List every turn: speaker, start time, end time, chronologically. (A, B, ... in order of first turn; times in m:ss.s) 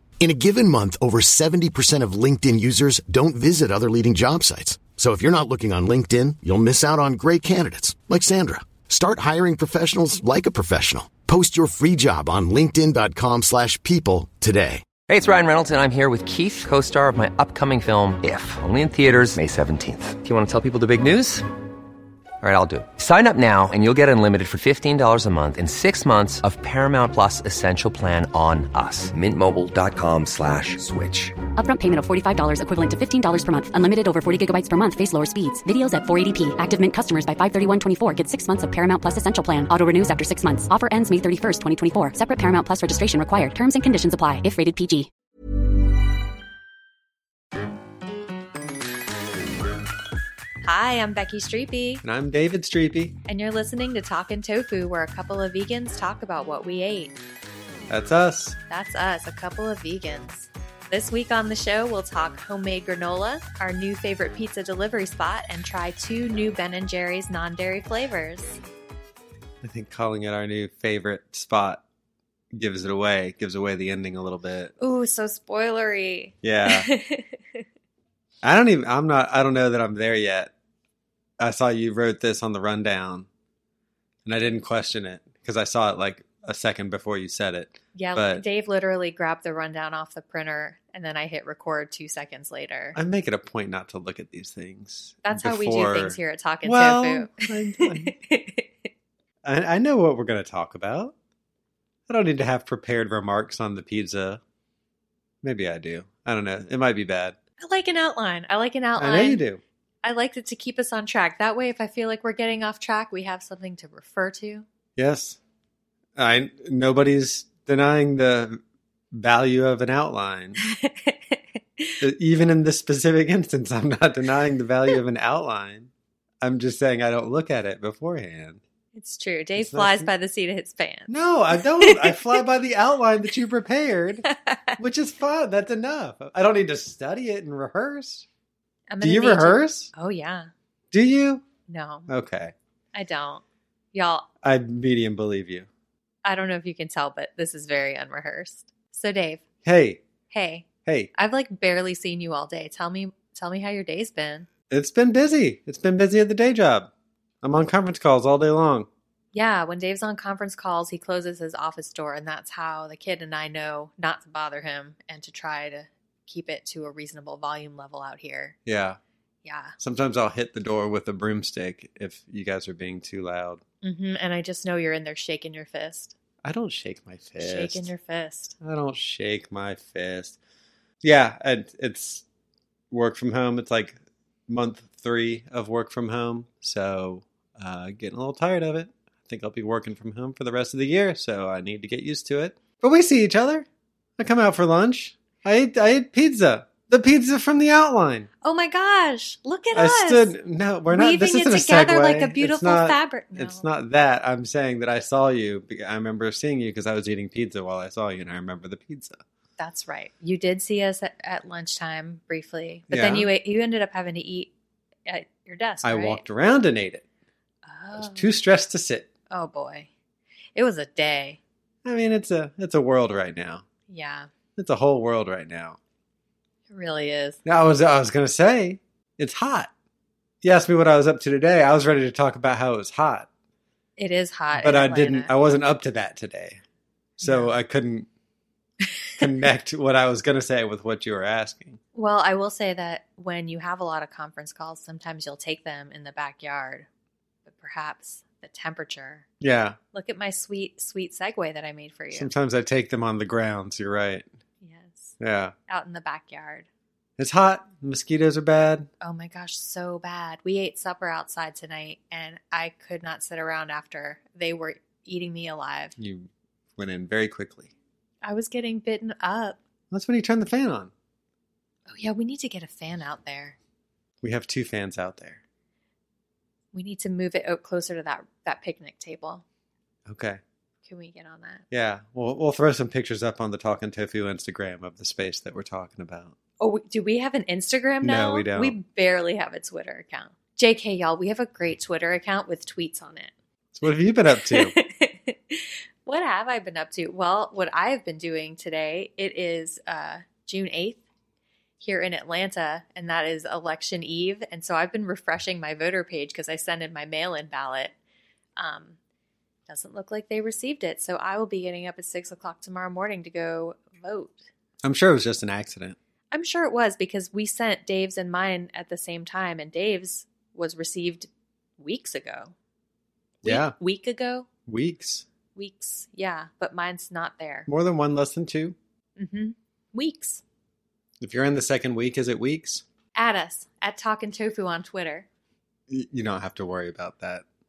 0:00.2-0:14.9 A
0:15.1-0:21.4 B
0:22.4-0:31.4 B
0:31.6-0:45.1 C
0:50.6-0:52.0 D
0:52.0-0:53.2 E
0:53.3-0:57.2 D
0:57.9-0:58.6 E
0:58.7-1:08.6 D
1:09.6-1:11.8 E
1:12.5-1:14.7 E
1:14.8-1:17.6 D
1:16.4-1:16.9 E
1:18.4-1:20.5 E
1:21.4-1:23.3 E
1:24.3-1:28.4 E
1:28.0-1:33.0 D
1:33.0-1:38.2 E
1:35.2-1:38.9 D
1:39.4-1:41.1 E
1:42.1-1:44.4 E
1:45.4-1:47.4 E
1:47.6-1:49.4 D
1:49.0-1:49.6 E
1:50.0-1:54.6 D
1:55.0-1:55.4 E
1:56.2-1:58.6 E
1:59.1-2:00.6 E
2:00.6-2:02.0 D
2:02.0-2:05.9 E
2:06.4-2:08.6 E
2:09.0-2:11.1 D
2:09.6-2:10.1 E
2:11.1-2:14.3 E
2:11.8-2:12.4 D
2:14.3-2:14.8 D
2:14.8-2:18.3 E
2:18.9-2:20.5 D
2:19.0-2:19.9 E
2:20.9-2:21.4 E
2:21.7-2:22.1 D
2:22.1-2:22.5 E
2:22.9-2:23.4 D
2:23.9-2:24.3 D
2:24.4-2:25.7 E
2:26.2-2:29.4 D
2:29.6-2:30.0 E
2:30.3-2:34.5 D
2:34.7-2:36.9 E
2:37.4-2:38.9 E
2:39.3-2:48.6 D
2:48.7-2:49.0 E
2:49.4-2:49.8 D
2:49.8-2:53.6 E
2:53.8-2:56.1 D
2:56.4-2:57.9 E
2:57.4-2:58.6 D
2:58.6-3:00.4 E
3:01.0-3:02.2 E
3:02.9-3:13.7 E
3:14.2-3:18.3 E
3:18.4-3:20.3 D
3:19.7-3:29.2 E
3:20.9-3:23.7 D
3:29.6-3:34.5 D
3:32.9-3:33.3 E
3:35.1-3:36.2 D
3:35.8-3:37.0 E
3:37.6-3:38.4 D
3:38.0-3:39.1 E
3:39.3-3:39.9 D
3:40.6-3:41.4 D
3:41.8-3:43.7 E
3:43.9-3:44.3 D
3:44.6-3:45.8 E
3:46.7-3:47.4 D
3:47.4-3:49.7 E
3:50.4-3:53.3 E
3:54.0-3:55.3 D
3:54.5-3:56.6 E
3:57.2-3:58.1 E
3:57.2-3:57.6 D
3:59.2-4:01.8 E
4:02.0-4:06.9 D
4:07.5-4:09.3 D
4:09.4-4:09.8 E
4:09.9-4:12.3 D
4:12.1-4:14.3 E
4:14.6-4:15.2 D
4:15.2-4:15.6 E
4:15.7-4:16.7 D
4:17.2-4:18.9 E
4:19.0-4:26.0 D
4:26.0-4:27.7 E
4:28.2-4:29.6 D
4:29.9-4:30.9 E
4:31.9-4:33.6 D
4:34.2-4:35.4 E
4:36.7-4:39.4 D
4:40.1-4:40.4 E
4:40.9-4:41.6 D
4:41.7-4:46.4 E
4:46.6-4:53.3 D
4:48.0-4:48.8 E
4:53.7-4:54.8 E
4:54.5-5:01.0 D
5:01.8-5:07.9 D
5:08.6-5:09.0 D
5:09.7-5:14.5 D
5:14.8-5:16.0 E
5:16.3-5:22.5 D
5:23.4-5:24.5 D
5:23.4-5:23.8 E
5:24.7-5:25.3 E
5:25.6-5:27.7 D
5:27.7-5:28.8 E
5:29.2-5:30.4 D
5:31.2-5:32.8 E
5:33.2-5:35.3 D
5:35.9-5:37.4 E